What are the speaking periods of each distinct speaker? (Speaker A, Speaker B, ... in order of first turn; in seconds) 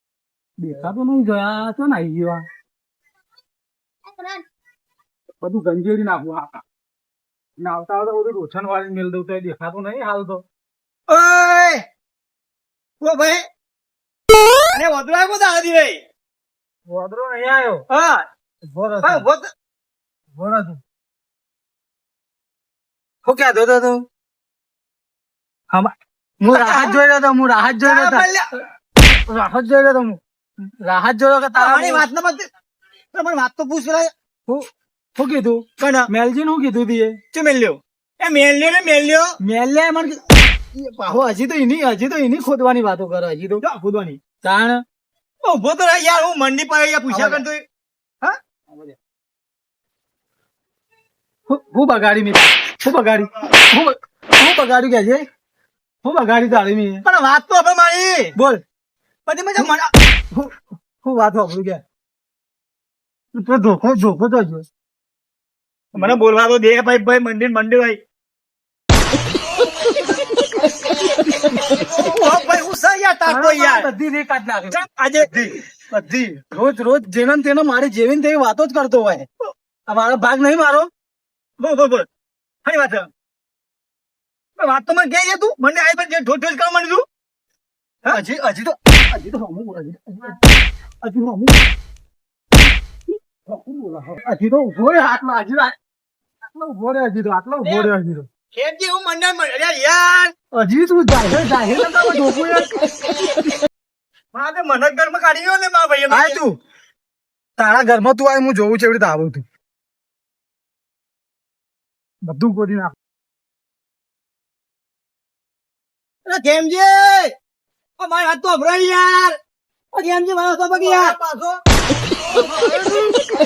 Speaker A: 0.6-2.5, 5.4-6.6, 7.6-10.4, 16.9-17.9, 18.7-19.3, 20.4-20.8, 23.2-24.1, 25.7-28.3, 29.1-30.2, 30.8-32.0, 34.5-37.2, 39.4-40.2, 40.7-43.6, 44.4-44.8, 47.1-47.5, 48.7-49.0, 51.5-55.2, 56.0-57.0, 60.3-61.8, 63.3-64.7, 66.0-66.2, 71.1-72.0, 73.2-74.8, 75.9-79.3, 79.9-80.9, 88.1-90.4, 91.0-91.5, 93.5-95.8, 96.5-98.3, 100.5-103.1, 106.1-106.6, 107.6-109.5, 112.2-112.9, 120.7-121.5, 122.4-123.1
Speaker B: 11.1-11.8, 13.0-13.4, 14.7-16.0, 17.9-18.2, 19.0-19.5, 26.5-27.0, 27.8-28.5, 31.6-32.5, 33.1-34.1, 35.8-36.1, 37.3-39.4, 43.6-44.2, 45.4-47.6, 57.0-58.4, 59.3-59.9, 66.0-68.0, 72.0-73.9, 74.7-75.6, 81.6-82.1, 82.7-83.1, 84.6-87.0, 97.6-97.9, 98.5-100.3, 104.3-106.4, 116.3-117.3, 118.0-119.4, 119.9-121.2